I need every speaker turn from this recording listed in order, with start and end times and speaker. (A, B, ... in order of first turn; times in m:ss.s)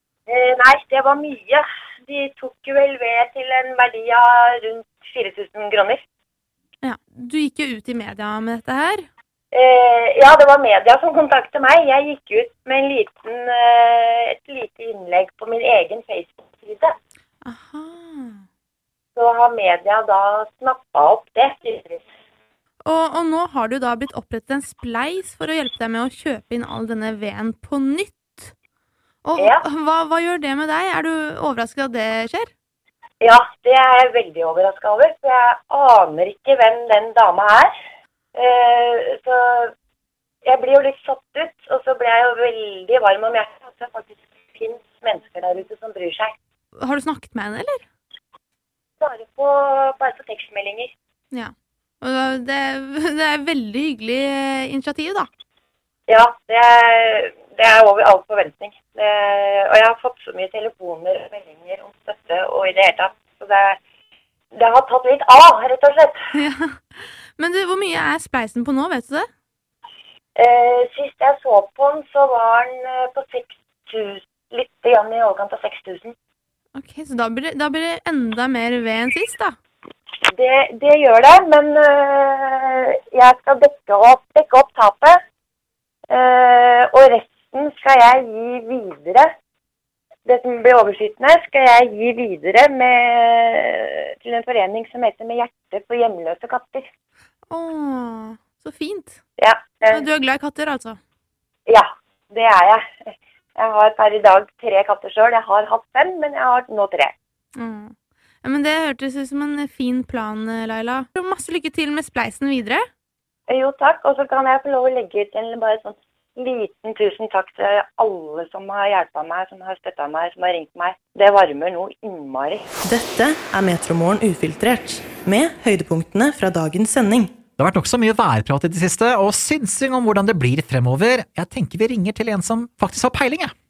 0:00.3-0:06.0 A
0:06.8-0:09.0 B
0:09.5-0:16.9 A
0:17.4-0:18.4 B
0:19.2-0:22.0 A
0:22.8-0:28.5 B
0:29.2-0:32.5 B
0:29.4-0:29.6 A
0:33.2-0:37.7 A
0:38.3-0:39.7 A
0:40.4-0:46.3 A
0:46.8-0:47.8 B
0:49.0-0:50.9 A
0:51.3-0:55.3 B
0:56.1-1:03.8 A
1:04.5-1:06.2 A
1:06.3-1:09.3 B
1:10.4-1:16.1 A
1:16.7-1:19.6 B
1:20.3-1:25.2 A
1:26.1-1:29.3 A
1:30.2-1:36.8 A
1:37.5-1:39.2 B
1:39.4-1:40.0 A
1:39.9-1:41.0 B
1:41.7-1:42.8 A
1:43.6-1:47.1 A
1:47.5-1:52.8 B
1:53.5-2:02.7 A
2:02.8-2:07.3 C
2:07.6-2:13.5 D